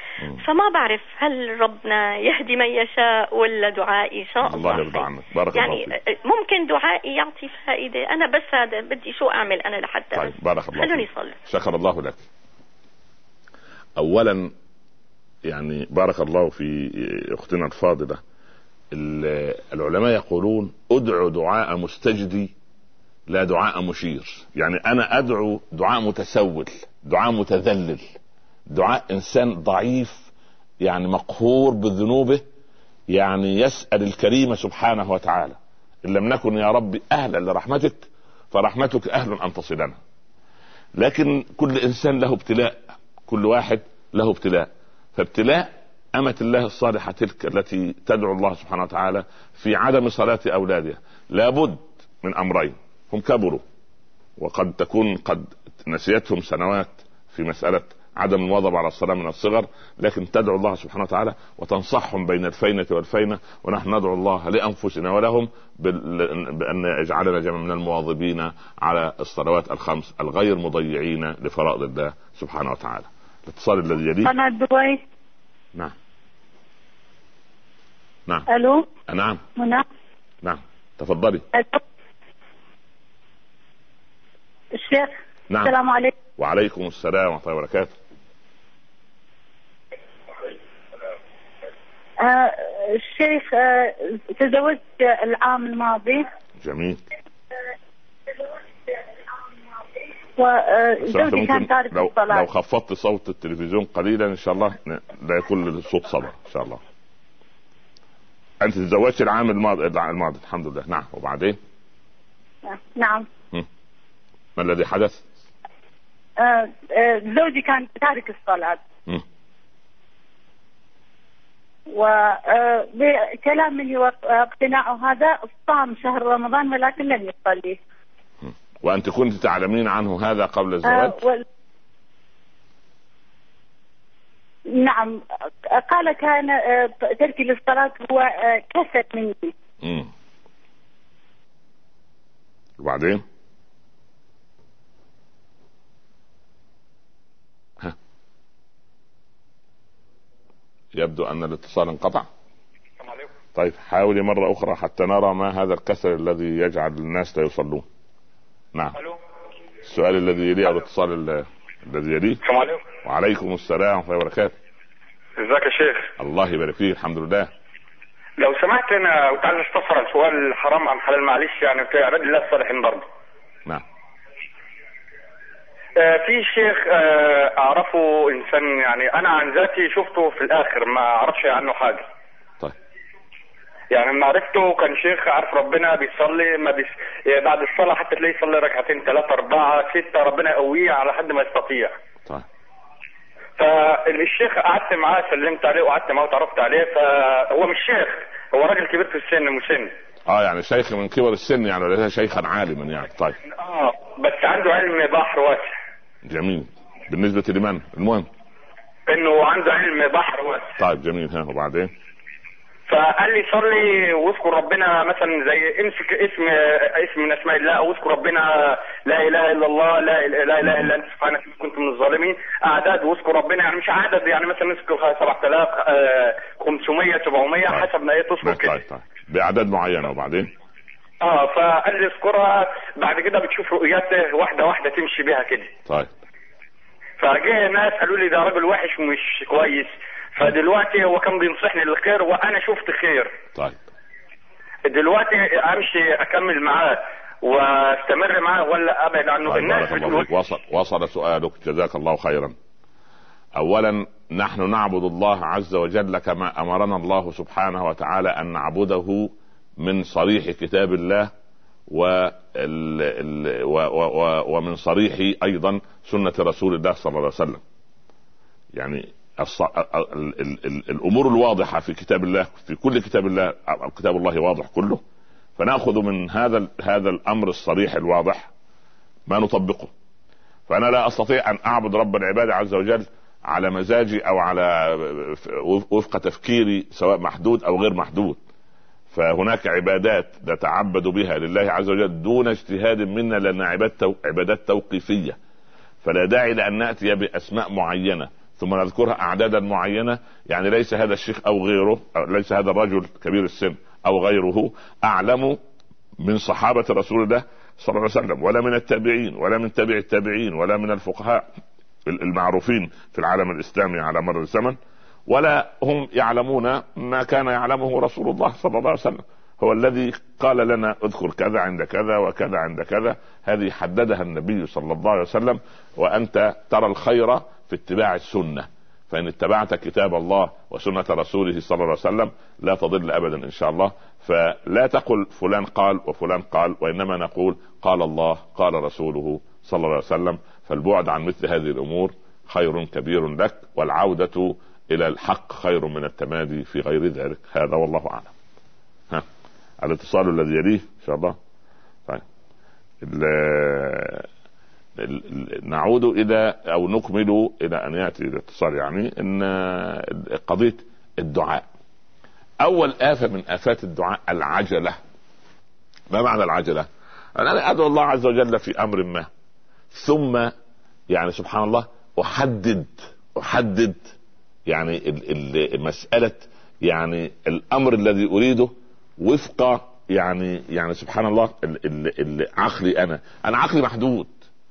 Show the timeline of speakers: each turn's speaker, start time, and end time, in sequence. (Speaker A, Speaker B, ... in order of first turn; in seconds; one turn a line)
Speaker A: 0.4-11.4
Speaker B: 4.5-6.0
Speaker B: 10.2-12.2
Speaker B: 14.0-14.5
Speaker B: 15.5-18.2
Speaker B: 18.9-22.5
Speaker B: 23.3-28.1
Speaker B: 28.7-30.3
Speaker B: 30.8-32.4
Speaker B: 33.1-38.0
Speaker B: 38.5-40.0
Speaker B: 41.0-53.6
Speaker B: 54.4-74.3
Speaker C: 74.2-75.0
Speaker C: 78.5-78.9
Speaker B: 79.1-79.4
Speaker C: 79.6-79.8
Speaker B: 80.4-81.4
Speaker C: 81.5-81.8
Speaker C: 84.8-86.1
Speaker B: 86.4-87.9
Speaker C: 92.2-96.2
Speaker B: 96.6-97.0
Speaker C: 100.4-102.5
Speaker B: 101.0-106.8
Speaker B: 108.6-111.6
Speaker C: 112.7-113.3
Speaker B: 114.6-115.2
Speaker C: 116.4-118.8
Speaker C: 121.9-127.8
Speaker B: 128.4-131.2
Speaker C: 130.8-131.4
Speaker C: 134.7-139.5
Speaker B: 139.8-140.1
Speaker B: 142.8-143.2
Speaker B: 150.9-152.3
Speaker D: 153.0-153.3
Speaker B: 153.6-157.9
Speaker B: 158.7-159.0
Speaker B: 159.8-162.4
Speaker D: 162.4-162.8
Speaker B: 163.0-164.6
Speaker D: 165.4-166.1
Speaker B: 166.2-167.5
Speaker D: 168.4-173.1
Speaker D: 176.0-182.1
Speaker D: 183.9-191.9
Speaker D: 193.6-199.9
Speaker B: 200.3-203.4
Speaker D: 203.6-205.8
Speaker B: 206.2-208.3
Speaker D: 209.1-210.7
Speaker B: 210.8-211.9
Speaker D: 212.9-228.8
Speaker B: 228.4-230.5
Speaker D: 231.2-235.7
Speaker D: 237.2-243.3
Speaker D: 244.9-250.2
Speaker B: 249.4-252.6
Speaker B: 253.6-261.3
Speaker B: 261.9-267.6
Speaker B: 268.8-275.0
Speaker B: 275.6-278.5
Speaker B: 279.3-279.9
Speaker B: 280.7-288.4
Speaker B: 289.1-295.4
Speaker B: 296.0-305.6
Speaker B: 306.2-311.4
Speaker B: 312.1-314.8
Speaker B: 315.3-348.3
Speaker B: 349.8-351.4
Speaker B: 353.0-354.3
Speaker B: 355.0-361.7
Speaker B: 362.6-365.0
Speaker B: 366.1-369.3
Speaker B: 369.9-370.5
Speaker B: 371.1-374.1
Speaker B: 374.7-384.4